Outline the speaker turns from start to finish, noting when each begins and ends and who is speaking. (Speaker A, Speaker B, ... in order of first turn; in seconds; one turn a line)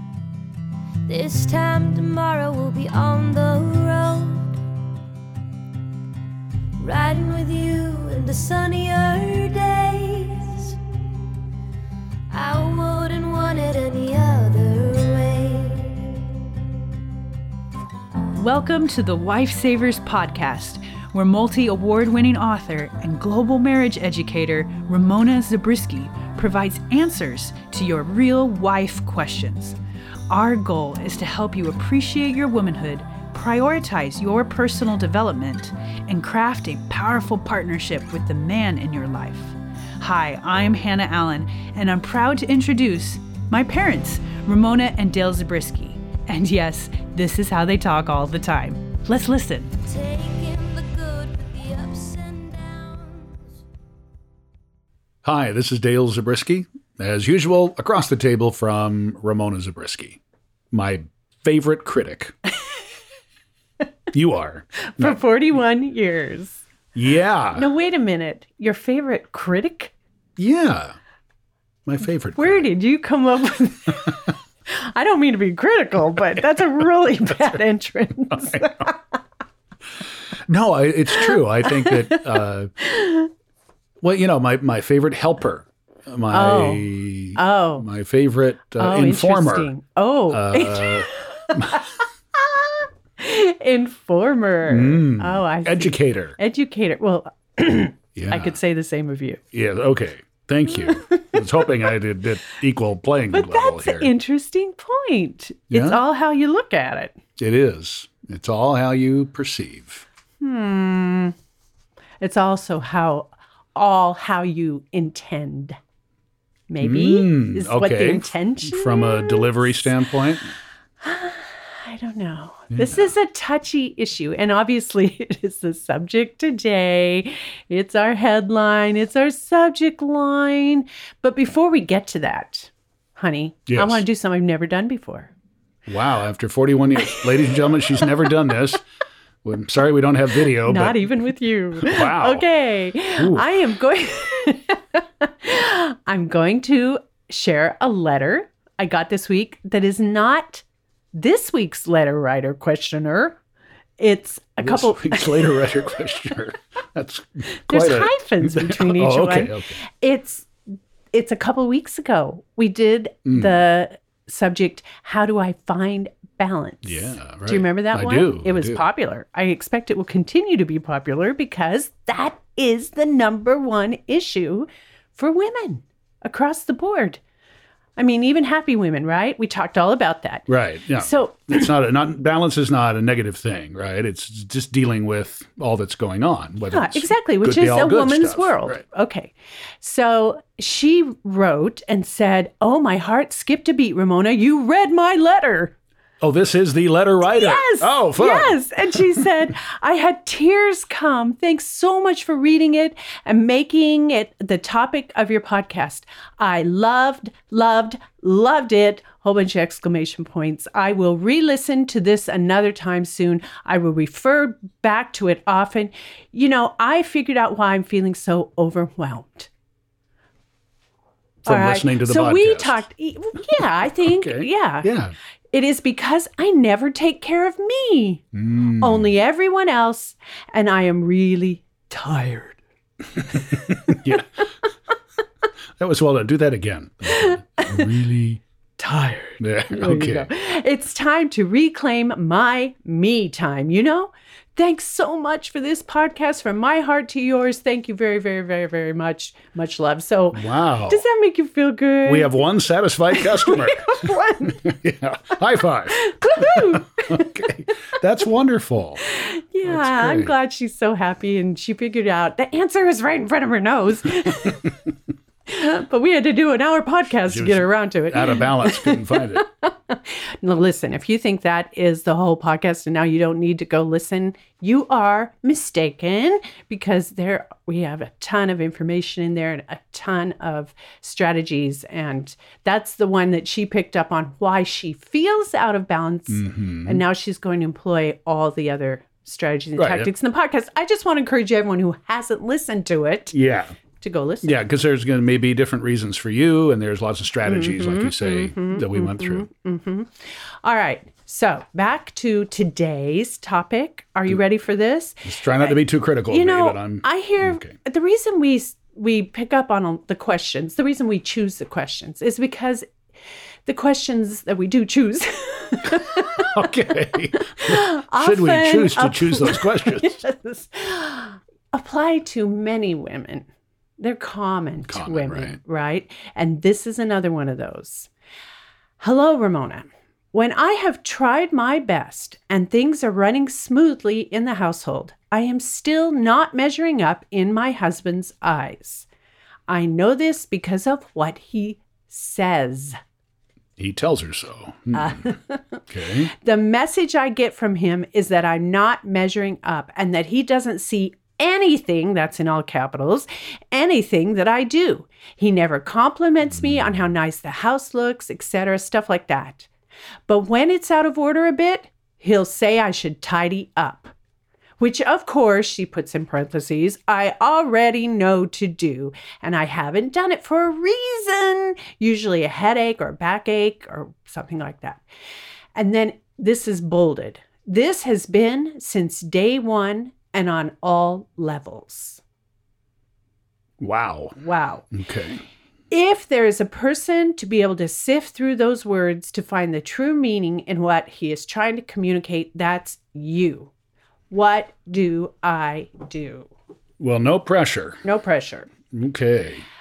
Speaker A: 1.1-4.6
Speaker A: 6.8-10.8
Speaker A: 12.3-16.1
Speaker B: 18.4-29.8
Speaker B: 30.3-49.7
Speaker A: 49.8-53.4
Speaker C: 55.2-60.2
Speaker C: 60.7-62.3
Speaker C: 64.1-65.2
Speaker B: 64.9-66.6
Speaker C: 66.9-67.6
Speaker B: 67.5-69.9
Speaker C: 70.4-71.0
Speaker C: 71.8-72.7
Speaker B: 72.3-79.0
Speaker C: 78.3-78.8
Speaker C: 80.5-82.7
Speaker B: 81.1-83.3
Speaker C: 84.0-89.7
Speaker B: 86.3-87.8
Speaker B: 88.8-99.4
Speaker C: 90.3-91.8
Speaker C: 94.7-96.3
Speaker C: 98.2-98.5
Speaker C: 99.5-104.1
Speaker B: 100.7-101.9
Speaker B: 103.3-107.2
Speaker C: 105.7-106.0
Speaker C: 107.4-110.0
Speaker B: 110.4-111.3
Speaker B: 112.2-115.8
Speaker B: 116.7-120.0
Speaker C: 116.8-120.5
Speaker B: 121.0-135.3
Speaker C: 122.7-123.1
Speaker C: 133.7-134.0
Speaker C: 135.9-138.8
Speaker B: 137.0-138.6
Speaker C: 139.4-141.1
Speaker B: 140.6-153.4
Speaker C: 141.8-142.4
Speaker C: 143.2-143.4
Speaker B: 154.0-155.9
Speaker C: 154.6-159.8
Speaker B: 157.5-177.2
Speaker C: 163.2-163.6
Speaker C: 166.8-168.8
Speaker B: 178.0-181.7
Speaker C: 180.5-188.8
Speaker B: 186.7-195.7
Speaker C: 196.2-199.5
Speaker B: 197.2-219.5
Speaker C: 221.4-222.8
Speaker B: 221.4-224.9
Speaker C: 224.0-225.1
Speaker B: 225.5-228.2
Speaker C: 228.3-229.1
Speaker B: 228.8-232.6
Speaker B: 233.2-234.2
Speaker C: 233.7-234.3
Speaker C: 235.8-238.4
Speaker B: 237.1-237.9
Speaker B: 238.8-252.4
Speaker C: 239.4-240.3
Speaker C: 250.3-251.0
Speaker C: 252.1-259.0
Speaker B: 253.1-254.7
Speaker B: 255.9-257.7
Speaker B: 259.0-264.8
Speaker C: 259.6-260.3
Speaker B: 265.5-293.4
Speaker C: 267.3-269.4
Speaker C: 286.3-287.0
Speaker C: 289.8-290.1
Speaker C: 293.3-293.7
Speaker B: 294.0-294.6
Speaker C: 294.4-299.5
Speaker B: 297.4-305.8
Speaker C: 305.2-307.7
Speaker B: 306.3-312.9
Speaker B: 313.6-323.5
Speaker C: 315.9-320.1
Speaker B: 324.0-328.1
Speaker C: 324.9-325.6
Speaker B: 329.0-339.1
Speaker B: 339.7-343.0
Speaker C: 343.8-345.2
Speaker B: 344.9-359.7
Speaker C: 345.9-346.3
Speaker B: 360.3-364.1
Speaker B: 364.8-375.0
Speaker B: 375.7-382.2
Speaker C: 383.8-384.4
Speaker B: 384.4-384.9
Speaker C: 384.9-385.4
Speaker B: 385.9-393.7
Speaker B: 394.3-396.5
Speaker C: 397.0-398.0
Speaker B: 398.0-398.7
Speaker C: 398.9-399.6